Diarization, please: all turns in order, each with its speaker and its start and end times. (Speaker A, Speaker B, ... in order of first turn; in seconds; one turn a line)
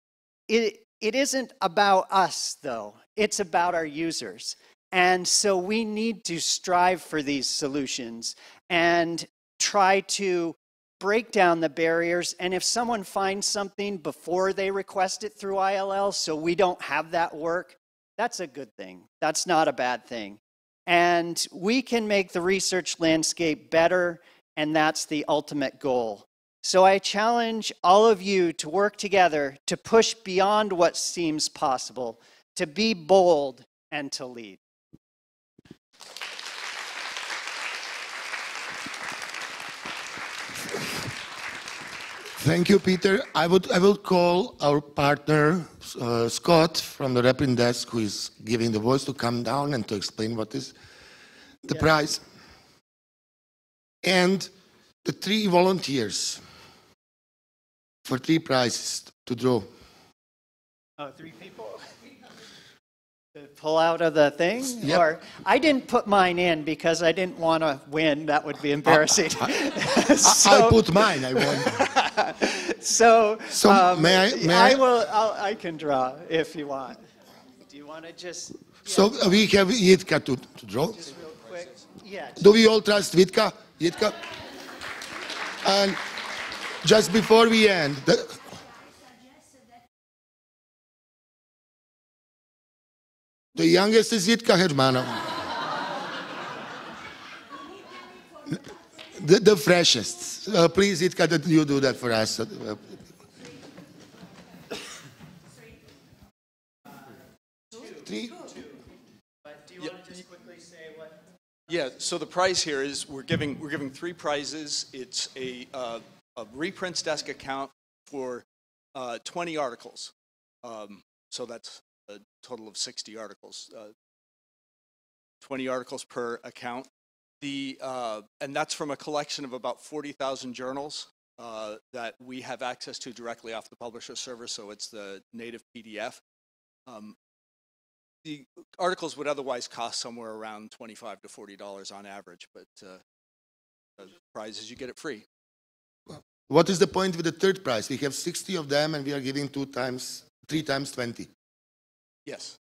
Speaker A: 0.5-34.6
Speaker B: 42.4-50.7
Speaker B: 51.6-52.2
Speaker B: 54.0-54.5
Speaker B: 55.0-56.4
Speaker B: 58.0-59.7
Speaker A: 61.0-61.9
Speaker A: 63.4-77.0
Speaker B: 70.2-71.8
Speaker B: 73.5-74.8
Speaker A: 77.6-79.4
Speaker B: 78.9-81.0
Speaker A: 80.9-82.6
Speaker B: 82.4-84.2
Speaker B: 85.6-86.0
Speaker B: 86.8-88.4
Speaker B: 93.5-95.3
Speaker B: 99.1-103.0
Speaker A: 107.7-108.8
Speaker B: 108.0-108.5
Speaker A: 109.4-111.2
Speaker C: 111.7-120.1
Speaker C: 120.6-123.9
Speaker C: 125.4-126.9
Speaker C: 127.4-136.2
Speaker C: 136.9-137.2
Speaker C: 138.2-143.0
Speaker C: 144.0-145.2
Speaker B: 146.1-151.3
Speaker C: 152.3-152.6